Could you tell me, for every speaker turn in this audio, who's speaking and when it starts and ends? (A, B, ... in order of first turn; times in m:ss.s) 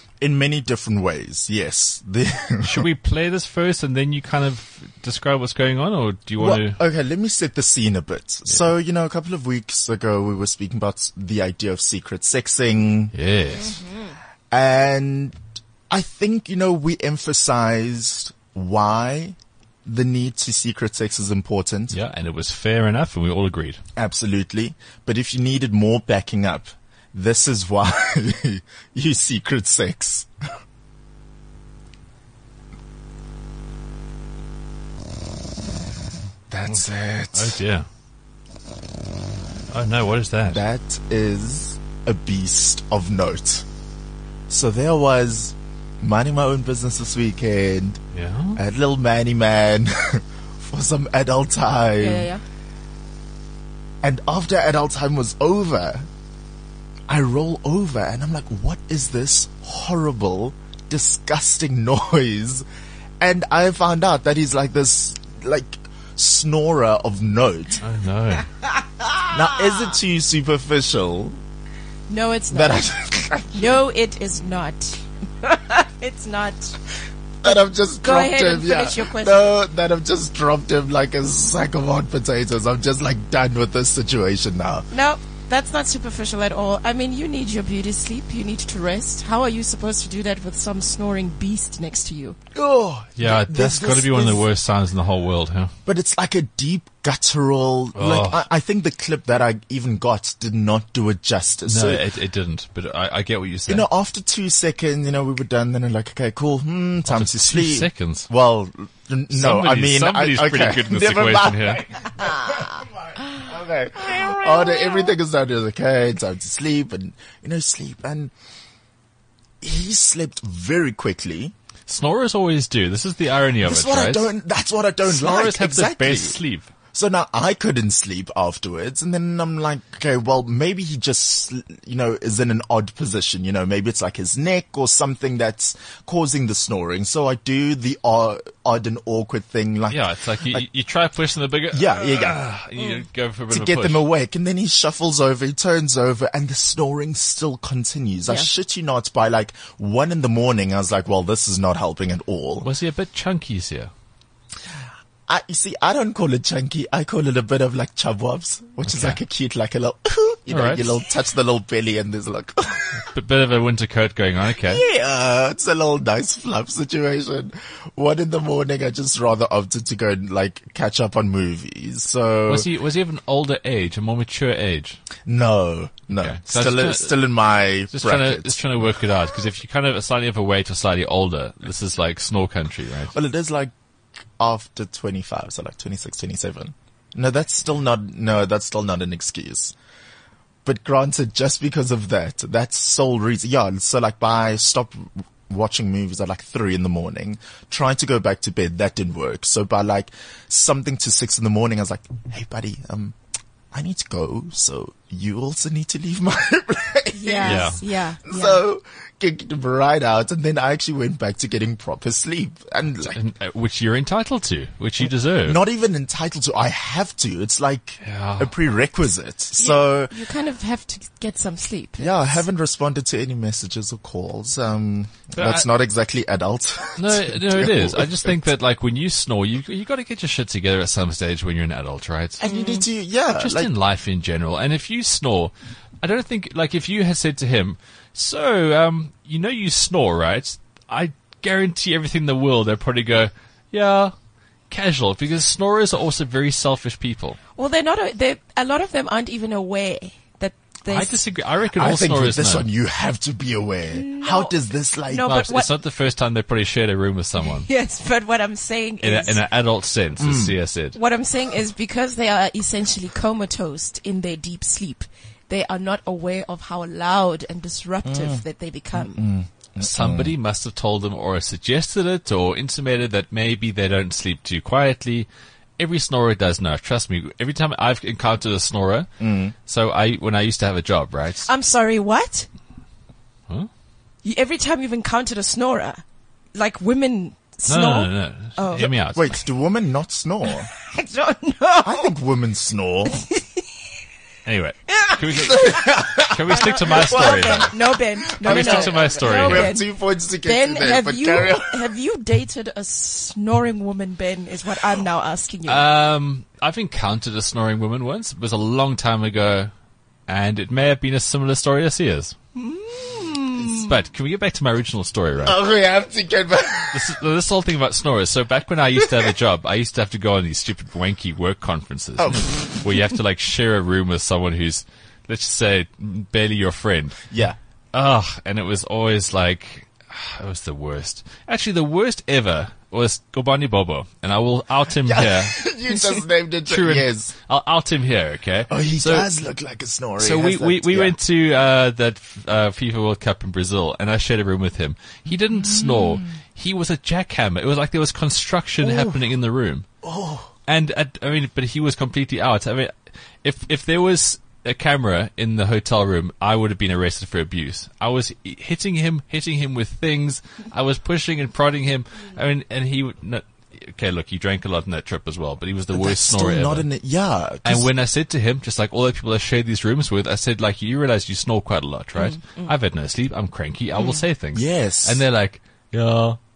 0:00.2-0:02.9 A
0:02.6-0:06.8 B
0:06.4-0:13.1 A
0:13.1-0:13.7 B
0:13.6-0:14.1 C
0:14.5-0:15.4 A
0:15.9-0:22.0 A
0:21.9-0:23.8 B
0:24.0-0:30.3 A
0:36.5-0:37.6 A
0:36.7-0:37.9 B
0:39.7-0:40.6 B
0:40.4-0:43.6 A
0:44.5-0:48.0 A
0:48.1-0:48.6 B
0:48.6-0:52.3 A
0:52.0-0:52.4 C
0:54.0-0:56.1 A
0:57.1-1:02.6 A
1:03.2-1:07.8 A
1:07.8-1:08.4 B
1:09.3-1:11.4 A
1:12.1-1:12.9 C
1:12.5-1:13.8 A
1:13.5-1:16.8 C
1:17.4-1:24.9 A
1:17.4-1:19.5 C
1:24.9-1:32.4 C
1:32.5-1:34.5 A
1:33.2-1:35.7 B
1:35.9-1:42.1 A
1:38.0-1:38.4 B
1:41.7-1:43.9 B
1:43.7-1:58.3 A
1:47.1-1:48.3 B
1:49.3-1:51.8 B
1:52.2-1:52.6 C
1:54.1-1:55.0 C
1:59.6-2:01.5 A
2:01.9-2:04.3 B
2:03.6-2:06.4 A
2:05.1-2:06.7 B
2:06.9-2:20.6 A
2:19.9-2:24.0 B
2:21.7-2:22.4 A
2:22.8-2:23.1 C
2:23.5-2:32.7 A
2:32.6-2:33.9 B
2:35.3-2:43.1 A
2:38.8-2:39.2 B
2:40.5-2:40.9 B
2:43.1-2:44.8 B
2:44.5-2:52.7 A
2:52.5-2:55.0 B
2:55.2-2:58.6 A
2:56.2-2:57.1 B
2:57.9-3:03.1 B
3:03.1-3:03.7 A
3:04.4-3:09.7 A
3:10.6-3:23.2 A
3:23.7-3:33.2 A
3:27.1-3:28.6 C
3:33.1-3:35.6 B
3:35.0-3:40.2 A
3:38.0-3:38.5 B
3:39.6-3:42.4 C
3:42.0-3:48.5 A
3:45.3-3:45.7 B
3:47.0-3:52.4 B
3:52.4-3:53.7 A
3:52.4-3:52.9 C
3:53.4-4:04.1 B
4:04.7-4:07.4 B
4:07.6-4:11.2 C
4:10.9-4:12.7 B
4:11.7-4:15.3 A
4:13.9-4:15.8 C
4:15.2-4:17.6 B
4:17.4-4:19.5 C
4:19.0-4:21.0 B
4:20.2-4:20.6 A
4:20.9-4:29.2 C
4:28.0-4:28.4 A
4:29.0-4:30.4 A
4:29.8-4:39.1 B
4:39.2-4:39.6 A
4:39.7-4:41.5 B
4:41.4-4:42.5 C
4:44.2-4:46.0 C
4:46.5-4:49.0 C
4:47.7-4:49.2 B
4:48.8-4:50.7 A
4:50.5-4:52.1 C
4:51.8-4:53.2 A
4:53.1-4:53.7 C
4:54.4-4:55.6 B
4:54.9-4:59.8 C
4:55.4-4:57.7 A
4:56.3-4:57.6 B
4:58.4-5:01.8 A
4:58.4-4:59.7 B
5:00.4-5:06.0 C
5:05.7-5:09.7 B
5:10.3-5:12.3 B
5:12.6-5:14.1 C
5:13.6-5:15.6 B
5:15.4-5:17.1 A
5:16.9-5:27.2 B
5:19.0-5:19.3 A
5:22.2-5:23.0 A
5:27.3-5:27.6 A
5:27.9-5:35.6 B
5:34.9-5:37.3 A
5:36.7-5:39.3 B
5:38.7-5:41.2 A
5:40.2-5:49.9 B
5:45.5-5:46.4 A
5:48.8-5:49.3 A
5:50.0-5:50.5 A
5:50.7-5:52.9 B
5:53.4-6:06.9 B
6:05.9-6:07.9 A
6:07.6-6:16.4 B
6:12.2-6:12.8 C
6:14.0-6:14.3 C
6:14.5-6:15.2 A